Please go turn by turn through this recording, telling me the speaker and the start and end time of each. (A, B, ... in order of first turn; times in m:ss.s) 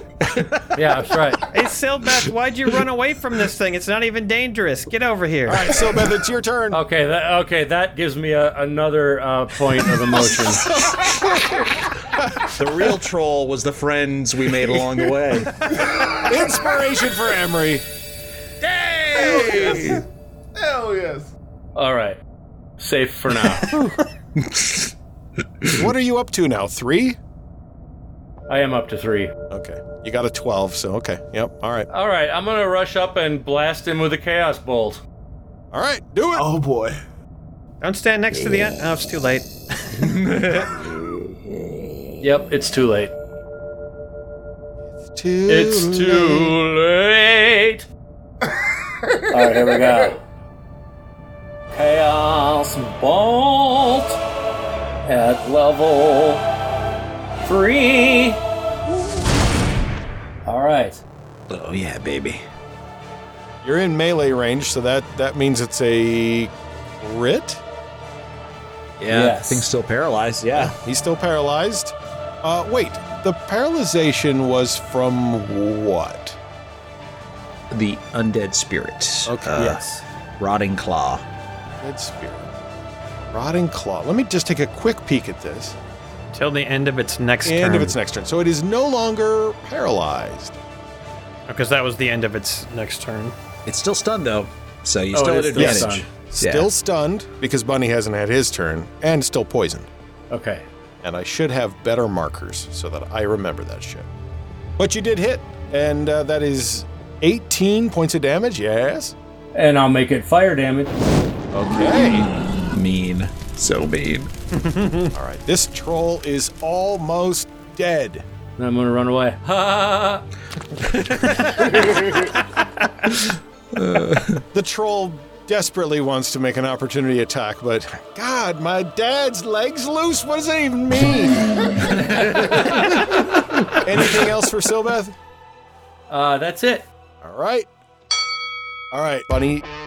0:00.2-0:00.8 A
0:00.8-0:01.4 B
0:01.5-0:05.8 C
0:05.5-0:06.8 D
0:06.7-0:10.7 B
0:10.6-0:12.9 D
0:12.5-0:15.7 A
0:15.6-0:16.5 E
0:16.2-0:17.8 D
0:18.6-0:20.0 A
0:19.1-0:21.3 E
0:21.8-0:22.2 B
0:22.8-0:23.7 B
0:23.7-0:24.0 D
0:24.4-0:24.9 A
0:25.7-0:27.2 D
0:28.5-0:29.3 B
0:29.5-0:31.9 D
0:31.9-0:35.0 B
0:35.7-0:36.5 D
0:36.3-0:37.0 E
0:37.8-0:40.1 C
0:40.0-0:40.8 A
0:42.2-0:43.1 B
0:44.9-0:46.6 D
0:45.5-0:47.8 B
0:49.0-0:49.7 E
0:49.3-0:50.2 B
0:51.7-0:54.2 B
0:55.0-0:56.4 B
0:57.4-0:58.4 B
1:00.4-1:01.0 B
1:01.5-1:02.4 A
1:03.6-1:07.6 D
1:09.0-1:10.8 A
1:09.1-1:09.7 B
1:10.6-1:16.4 D
1:17.7-1:19.8 A
1:19.3-1:19.8 D
1:19.6-1:20.0 B
1:20.4-1:21.2 A
1:21.8-1:22.5 D
1:23.3-1:25.8 D
1:26.3-1:28.0 C
1:27.4-1:30.6 D
1:31.5-1:33.3 C
1:33.7-1:36.7 A
1:35.1-1:36.1 B
1:35.5-1:39.9 D
1:40.3-1:40.6 B
1:41.0-1:44.1 D
1:44.8-1:49.1 D
1:49.6-1:50.9 B
1:51.5-1:52.3 D
1:52.7-1:54.3 A
1:54.5-1:55.1 C
1:55.1-1:58.2 D
1:58.6-2:00.2 B
2:00.9-2:02.0 A
2:03.7-2:04.4 A
2:04.5-2:15.2 D
2:12.0-2:13.1 B
2:16.1-2:16.9 B
2:17.2-2:17.7 D
2:18.9-2:19.7 D